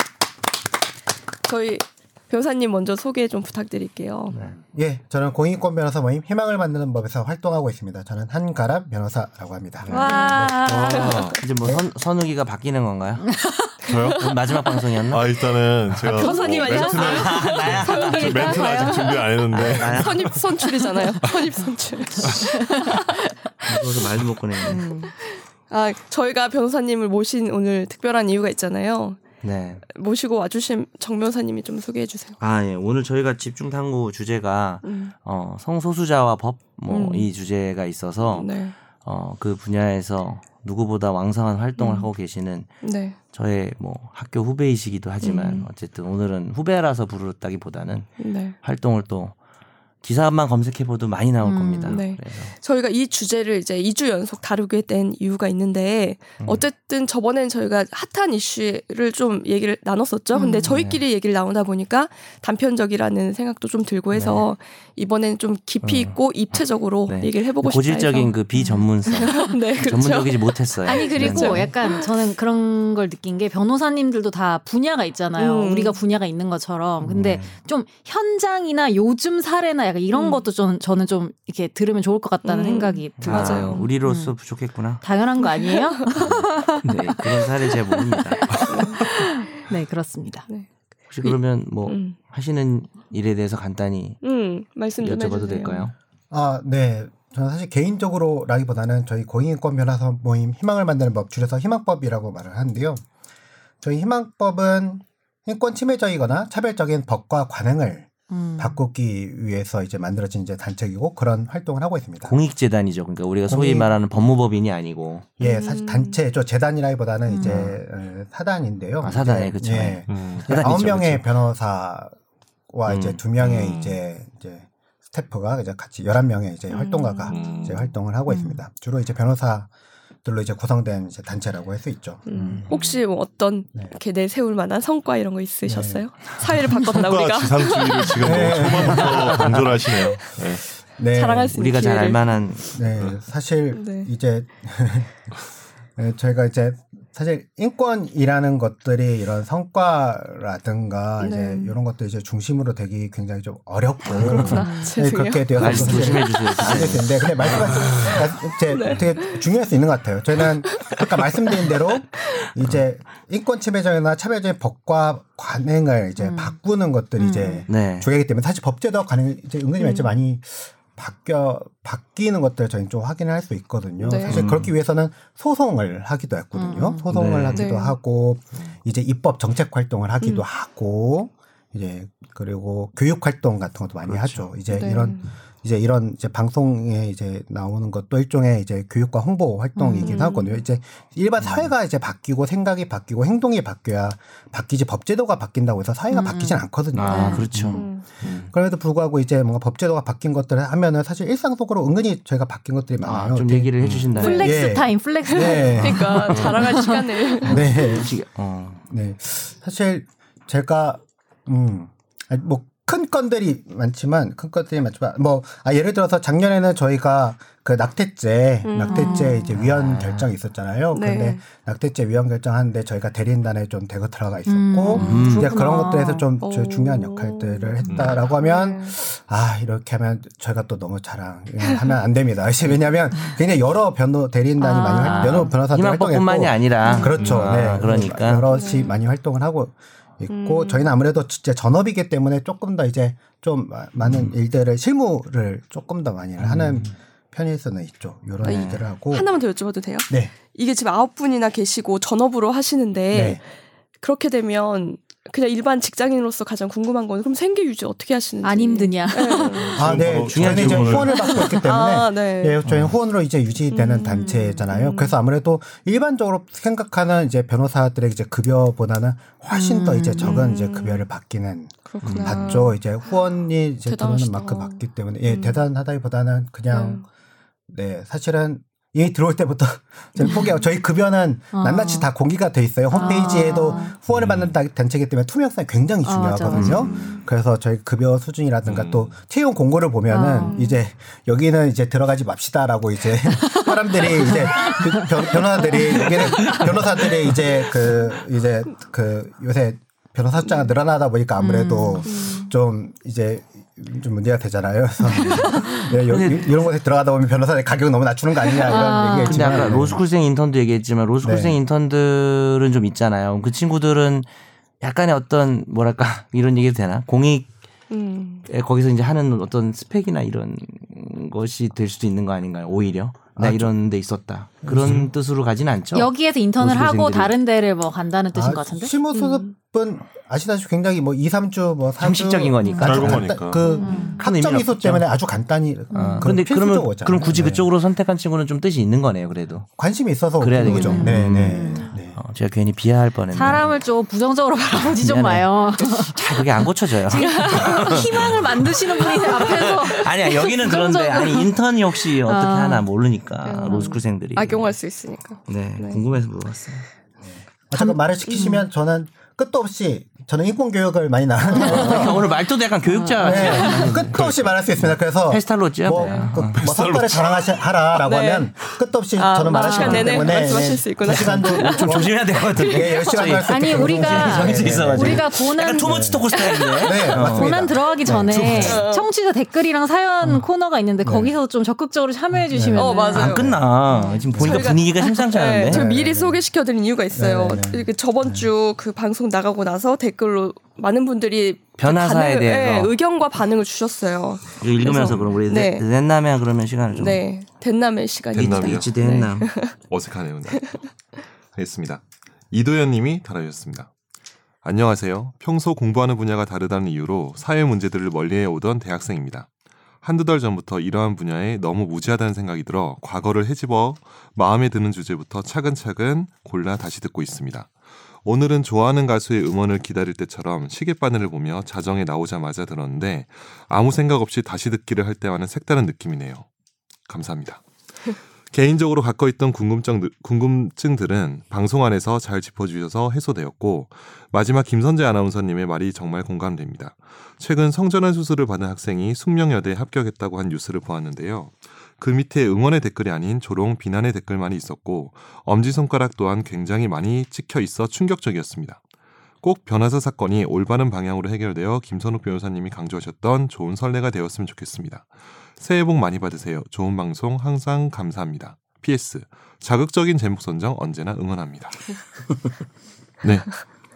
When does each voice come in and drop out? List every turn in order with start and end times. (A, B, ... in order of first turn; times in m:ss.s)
0:01.4-0:04.4 A
0:04.3-0:04.6 B
0:04.7-0:09.9 C
0:09.8-0:10.6 B
0:09.9-0:11.4 A
0:09.9-0:11.2 D
0:10.6-0:11.4 E
0:11.4-0:13.4 B
0:13.3-0:13.7 D
0:13.8-0:14.4 A
0:13.8-0:14.2 E
0:14.2-0:15.3 B
0:15.1-0:21.3 E
0:15.9-0:18.9 B
0:16.1-0:19.2 A
0:16.2-0:17.2 D
0:17.9-0:19.2 D
0:19.5-0:20.4 B
0:19.8-0:29.2 A
0:22.6-0:23.0 D
0:23.7-0:24.8 B
0:24.6-0:25.1 D
0:29.4-0:29.8 B
0:29.9-0:32.4 A
0:32.4-0:49.3 B
0:34.8-0:35.1 A
0:36.9-0:37.3 A
0:38.2-0:38.8 A
0:41.8-0:42.1 A
0:42.8-0:43.2 A
0:45.2-0:45.7 A
0:48.2-0:48.6 A
0:50.0-0:52.5 B
0:51.4-0:52.0 D
0:51.9-1:08.4 A
1:00.3-1:00.7 D
1:00.6-1:01.0 B
1:04.1-1:04.5 B
1:05.8-1:06.2 B
1:07.1-1:11.7 B
1:08.5-1:09.5 D
1:09.1-1:12.1 A
1:10.8-1:24.4 D
1:15.4-1:16.0 A
1:17.0-1:17.5 B
1:20.1-1:20.4 A
1:22.4-1:23.9 A
1:23.2-1:25.0 B
1:25.0-1:30.4 D
1:25.6-1:26.4 A
1:26.3-1:28.7 B
1:28.6-1:29.0 A
1:31.1-1:34.2 B
1:31.2-1:32.2 A
1:34.2-1:35.9 A
1:35.0-1:35.9 B
1:36.3-1:43.0 C
1:43.8-1:52.4 C
1:48.3-1:48.8 D
1:52.2-1:55.3 B
1:53.4-1:54.0 C
1:55.4-2:02.1 C
1:55.4-1:56.2 A
1:57.3-1:57.6 D
1:57.4-1:57.8 B
1:59.0-2:01.2 B
2:00.1-2:00.5 E
2:02.7-2:09.7 C
2:02.8-2:03.2 B
2:03.4-2:04.0 E
2:06.7-2:07.8 A
2:07.3-2:07.8 E
2:08.3-2:08.6 D
2:10.2-2:12.7 C
2:12.2-2:18.4 A
2:12.7-2:13.0 E
2:15.6-2:16.0 C
2:16.8-2:20.6 E
2:18.2-2:21.6 C
2:19.1-2:19.4 A
2:21.1-2:22.4 A
2:21.5-2:22.7 B
2:22.7-2:25.3 C
2:23.7-2:24.1 A
2:26.0-3:17.8 C
2:31.2-2:31.8 A
2:34.0-2:34.6 B
2:34.1-2:37.0 A
2:34.5-2:34.9 D
2:35.5-2:38.1 B
2:37.6-2:38.2 E
2:38.6-2:39.4 A
2:40.7-2:42.5 A
2:46.2-2:46.6 D
2:47.2-2:47.7 D
2:47.7-2:48.1 B
2:54.0-2:54.4 A
2:54.2-2:54.7 B
2:56.5-2:57.0 D
2:57.1-2:57.7 B
2:57.5-2:58.0 A
3:04.2-3:04.5 E
3:04.7-3:05.3 A
3:09.8-3:10.2 D
3:10.0-3:10.6 A
3:16.1-3:17.5 D
3:16.9-3:18.5 B
3:17.7-3:18.1 A
3:18.2-3:18.5 E
3:18.4-3:23.7 C
3:23.0-3:24.6 B
3:23.8-3:24.1 E
3:24.1-3:24.5 A
3:24.2-3:27.5 D
3:24.3-3:26.4 C
3:25.2-3:27.9 A
3:27.4-3:28.1 C
3:27.4-3:28.8 B
3:28.9-4:09.3 C
3:38.6-3:39.4 A
3:38.8-3:39.6 D
3:39.5-3:40.3 B
3:40.9-3:41.4 A
3:44.5-3:46.2 D
3:44.9-3:45.6 B
3:45.0-3:45.3 A
3:46.4-3:49.0 A
3:47.9-3:48.2 E
3:54.6-3:55.5 D
3:54.9-3:58.5 B
3:56.8-3:57.2 D
3:58.5-3:59.0 A
4:00.3-4:01.0 A
4:04.0-4:04.3 B
4:06.4-4:06.9 B
4:08.4-4:13.4 A
4:08.4-4:08.9 B
4:10.1-4:10.3 C
4:13.1-4:13.4 C
4:14.0-4:19.9 A
4:18.4-4:19.8 D
4:19.8-4:21.3 E
4:19.8-4:37.0 C
4:20.0-4:21.2 B
4:21.0-4:22.7 A
4:21.1-4:21.6 D
4:22.6-4:22.9 B
4:23.7-4:25.1 A
4:23.9-4:24.6 D
4:29.5-4:30.7 D
4:30.2-4:31.0 A
4:31.8-4:32.8 A
4:32.0-4:32.6 B
4:33.8-4:35.6 A
4:36.7-4:37.0 A
4:37.7-5:10.0 C
4:40.2-4:40.5 D
4:41.5-4:42.1 D
4:42.9-4:43.9 D
4:43.1-4:43.9 A
4:44.1-4:44.6 E
4:46.0-4:47.2 D
4:46.5-4:47.1 B
4:46.6-4:47.2 A
4:48.6-4:49.1 E
4:50.1-4:50.8 D
4:50.4-4:50.6 A
4:53.2-4:56.6 D
5:01.4-5:02.1 D
5:02.0-5:02.5 A
5:05.2-5:05.8 D
5:06.1-5:06.5 B
5:08.6-5:09.8 D
5:09.1-5:14.3 B
5:11.2-5:11.6 C
5:14.8-5:17.5 B
5:17.9-5:18.4 A
5:18.5-5:27.4 B
5:23.4-5:23.7 C
5:24.6-5:25.0 C
5:24.7-5:25.1 E
5:25.9-5:28.9 D
5:28.3-5:37.7 C
5:29.1-5:29.5 A
5:32.0-5:33.4 B
5:32.8-5:33.6 E
5:33.6-5:34.1 A
5:33.8-5:34.2 D
5:34.0-5:35.1 B
5:35.9-5:36.3 D
5:35.9-5:39.7 B
5:39.8-5:42.2 C
5:40.4-5:43.7 B
5:40.6-5:41.9 D
5:43.3-5:46.5 D
5:44.7-5:54.7 B
5:47.0-5:52.9 D
5:47.2-5:48.1 A
5:49.0-5:50.0 A
5:53.4-5:56.0 A
5:53.6-5:54.0 D
5:55.5-5:56.8 B
5:57.2-6:02.3 C
5:57.8-5:58.6 D
5:58.3-5:58.6 A
6:01.5-6:03.9 D
6:01.5-6:04.1 B
6:03.2-6:18.8 C
6:03.2-6:03.8 A
6:04.0-6:04.5 E
6:04.8-6:06.6 B
6:06.0-6:06.3 A
6:06.5-6:07.6 E
6:08.0-6:08.5 A
6:09.2-6:13.4 A
6:09.4-6:10.4 D
6:11.0-6:17.6 B
6:13.4-6:24.2 D
6:16.5-6:16.9 A
6:18.5-6:19.1 A
6:21.0-6:21.3 C
6:22.3-6:23.7 C
6:22.8-6:23.5 A
6:23.1-6:25.9 B
6:24.3-6:24.7 C
6:24.4-6:35.8 A
6:25.6-6:26.4 C
6:27.1-6:28.5 C
6:31.8-6:32.9 B
6:34.6-6:37.2 B
6:35.1-6:35.4 E
6:36.9-6:39.7 A
6:38.3-6:38.9 E
6:38.4-6:39.5 B
6:39.9-6:40.8 E
6:41.5-6:43.9 E
6:44.6-6:49.5 E
6:50.0-6:57.7 E
6:58.2-7:06.4 E
7:07.1-7:07.6 E
7:08.5-7:28.8 E
7:29.4-7:41.8 E
7:43.2-7:43.6 E